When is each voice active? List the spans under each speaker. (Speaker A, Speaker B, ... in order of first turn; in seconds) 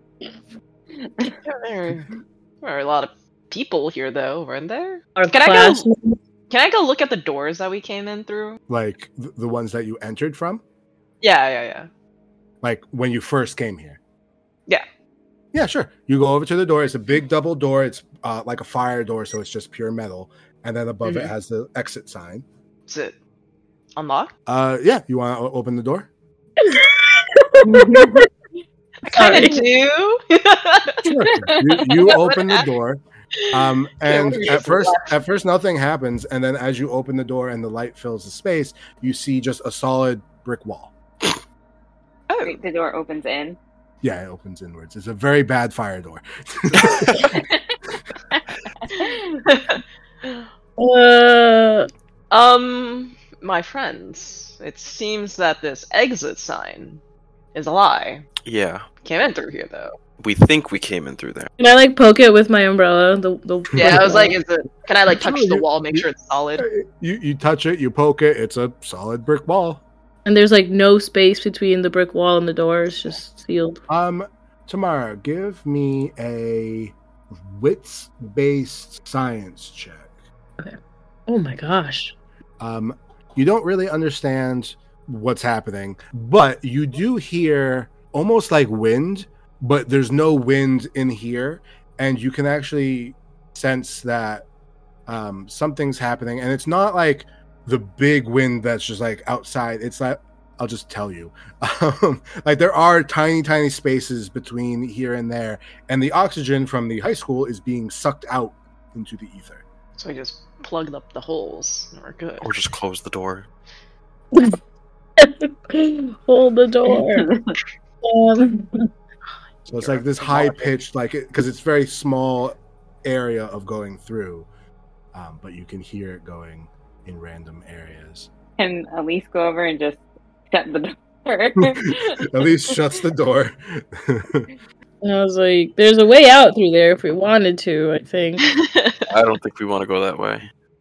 Speaker A: 1.0-1.4, 42.4-43.6, 47.2-47.7, 48.3-49.4, 117.2-117.5, 128.6-132.4
Speaker B: 1.4-5.9, 6.5-8.6, 11.2-11.9, 21.0-21.3, 22.9-23.1, 23.9-24.3, 29.0-31.1, 32.0-32.6, 33.4-35.1, 42.3-42.5, 49.4-50.4, 52.3-57.0, 57.5-58.3, 59.0-60.0, 63.8-66.7, 110.0-112.5, 119.7-120.7, 138.4-139.1
Speaker C: 5.2-6.2, 26.6-28.3, 29.1-29.6, 50.8-51.9, 61.6-64.4, 70.2-73.8, 81.3-82.1, 114.3-114.6, 115.2-117.3, 118.0-118.9, 135.0-138.4
Speaker D: 8.7-10.6, 12.6-14.0, 15.5-22.4, 24.5-26.1, 31.0-41.3, 44.0-47.4, 63.8-64.1, 65.1-66.0, 66.6-69.8, 73.9-80.1, 82.6-94.5, 95.1-109.6, 119.7-124.5, 125.1-128.3, 131.6-134.5
Speaker E: 58.4-58.9, 60.2-61.5, 112.4-113.5, 139.1-140.5